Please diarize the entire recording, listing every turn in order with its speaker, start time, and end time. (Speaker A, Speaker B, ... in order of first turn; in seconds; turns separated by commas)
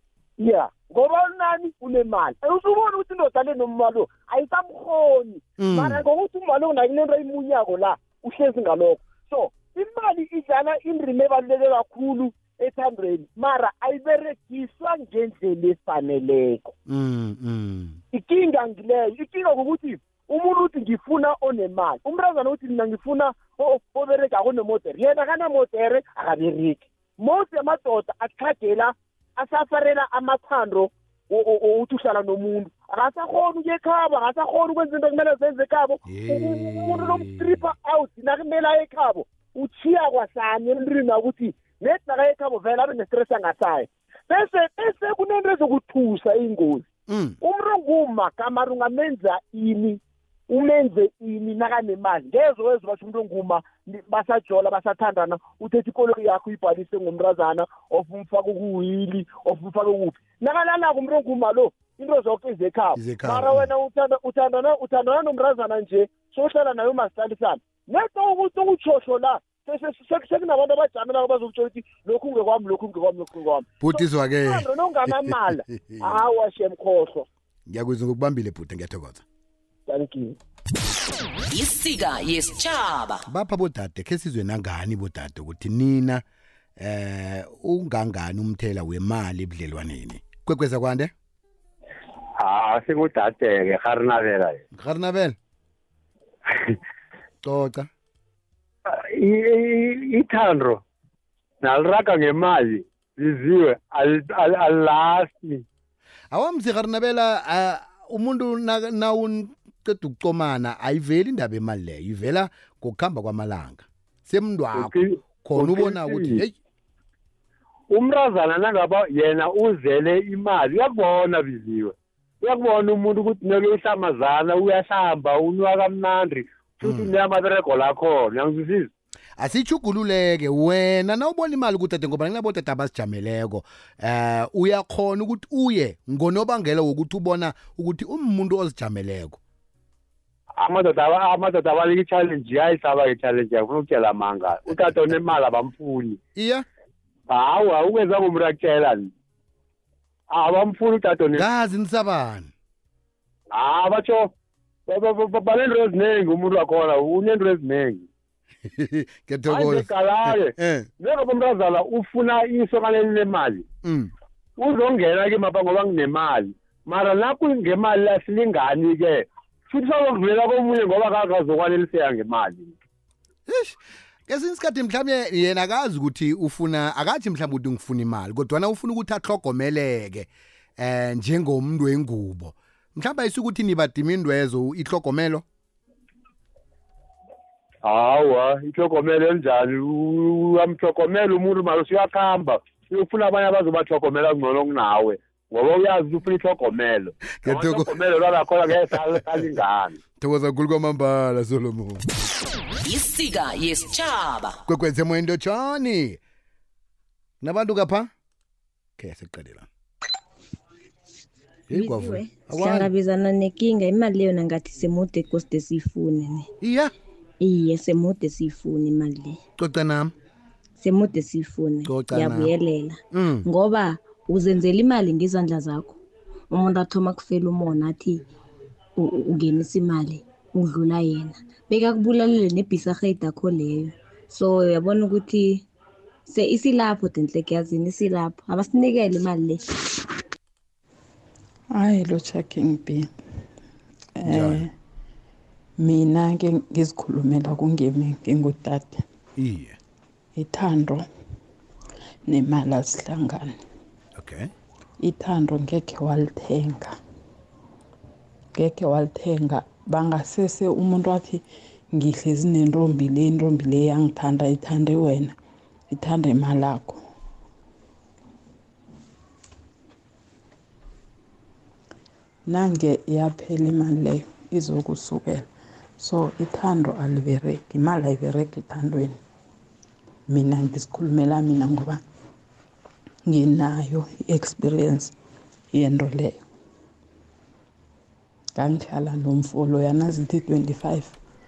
Speaker A: 0.4-16.7, Speaker B: 5.6-6.0, Speaker B: 16.9-18.0, Speaker A: 18.1-46.9, Speaker B: 36.1-37.7, Speaker B: 47.1-47.4, Speaker A: 47.4-77.2, Speaker B: 62.9-63.7, Speaker B: 73.8-76.2, Speaker B: 77.7-79.2, Speaker A: 79.9-80.3, Speaker C: 81.5-83.2, Speaker B: 83.3-86.2, Speaker B: 86.8-91.1, Speaker D: 92.4-94.5, Speaker B: 94.7-95.3, Speaker B: 97.4-97.9, Speaker D: 99.2-100.8, Speaker D: 101.6-105.6, Speaker B: 106.3-116.5, Speaker D: 114.8-116.4, Speaker D: 117.9-128.9, Speaker B: 126.8-127.1, Speaker B: 129.4-139.4, Speaker D: 140.6-146.2, Speaker B: 144.7-145.3, Speaker B: 146.3-146.6, Speaker D: 147.3-149.1, Speaker D: 150.3-151.4, Speaker B: 151.3-152.5, Speaker D: 153.5-154.3, Speaker D: 154.9-158.0, Speaker B: 158.7-160.9, Speaker D: 159.5-163.6, Speaker B: 163.8-164.1, Speaker D: 164.6-172.7, Speaker B: 173.5-185.4, Speaker D: 187.8-199.9, Speaker B: 197.4-198.0, Speaker B: 198.7-199.5, Speaker B: 200.2-202.0, Speaker C: 202.8-204.5, Speaker B: 204.7-206.2, Speaker B: 207.4-208.1, Speaker B: 209.0-209.7, Speaker B: 211.7-212.9, Speaker E: 211.7-216.5, Speaker B: 216.6-216.9, Speaker E: 217.4-219.4, Speaker B: 219.6-220.1, Speaker E: 220.8-226.0, Speaker B: 221.8-222.5, Speaker B: 223.1-223.4, Speaker E: 226.5-228.2, Speaker E: 229.0-235.6, Speaker E: 236.3-239.6, Speaker F: 241.7-243.1, Speaker F: 244.2-244.7, Speaker B: 244.2-244.6, Speaker F: 245.8-249.0, Speaker B: 249.4-249.8, Speaker F: 250.3-251.0, Speaker F: 252.3-253.5, Speaker B: 254.2-254.5, Speaker F: 255.0-256.9, Speaker F: 258.5-265.3, Speaker F: 265.9-267.0, Speaker F: 272.5-275.5, Speaker F: 276.0-279.2, Speaker F: 280.3-282.0, Speaker F: 283.3-285.1, Speaker F: 285.7-286.4, Speaker F: 288.5-291.1